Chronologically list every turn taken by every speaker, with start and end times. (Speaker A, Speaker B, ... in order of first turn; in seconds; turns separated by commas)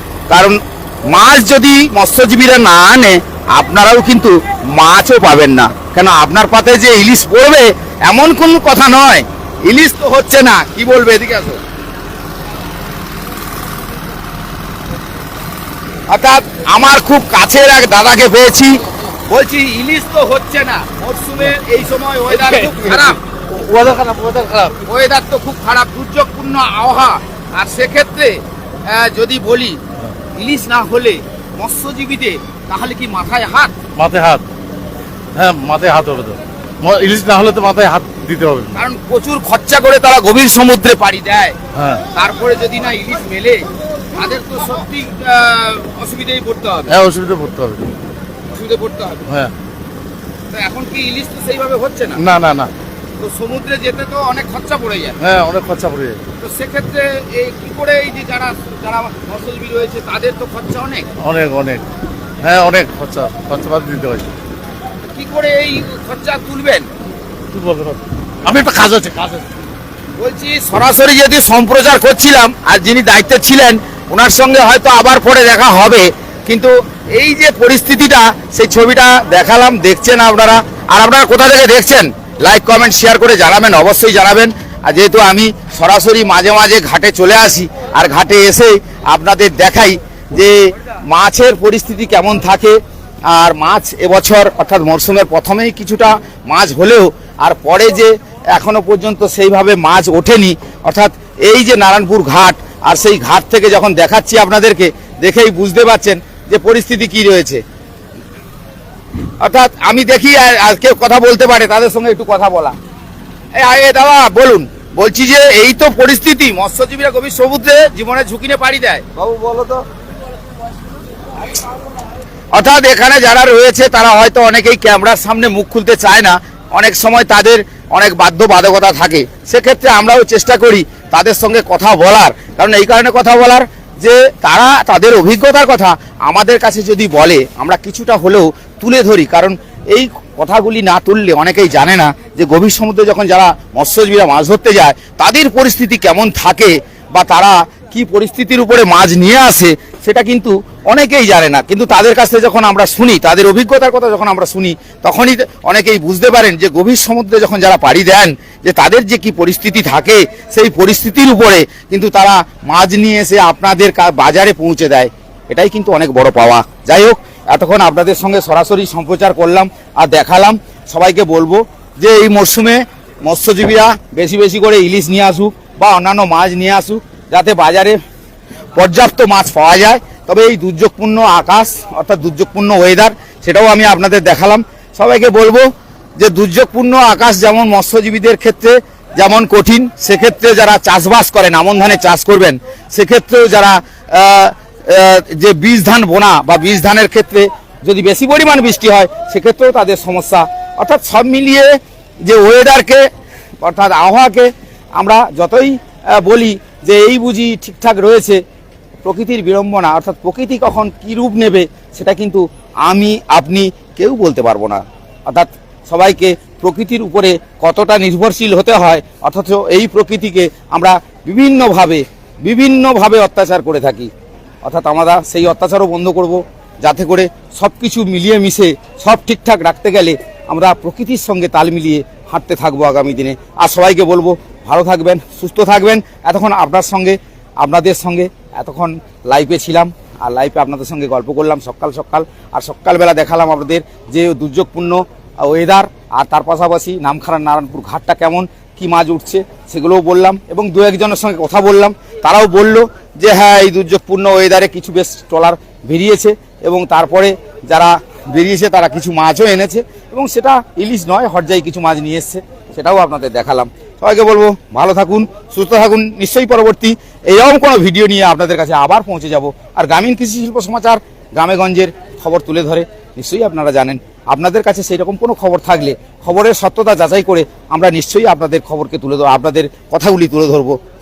Speaker A: 0.3-11.6, Speaker A: 16.1-23.2, Speaker B: 22.4-24.8, Speaker A: 24.8-29.8, Speaker A: 30.3-33.7, Speaker B: 33.9-34.5, Speaker B: 35.3-38.8, Speaker A: 38.7-41.6, Speaker B: 41.8-42.0, Speaker A: 42.1-47.0, Speaker B: 46.9-47.9, Speaker A: 48.5-49.4, Speaker A: 50.5-52.2, Speaker B: 52.2-52.7, Speaker A: 53.2-55.2, Speaker B: 55.2-56.2, Speaker A: 56.4-61.1, Speaker B: 61.2-61.9, Speaker B: 62.4-64.3, Speaker A: 65.1-66.9, Speaker B: 67.5-69.5, Speaker A: 70.2-92.8, Speaker A: 93.3-107.6, Speaker A: 109.4-112.8, Speaker A: 113.5-119.8, Speaker A: 122.5-178.0, Speaker A: 178.7-203.1, Speaker A: 203.6-208.4, Speaker A: 209.0-224.1, Speaker A: 224.6-280.8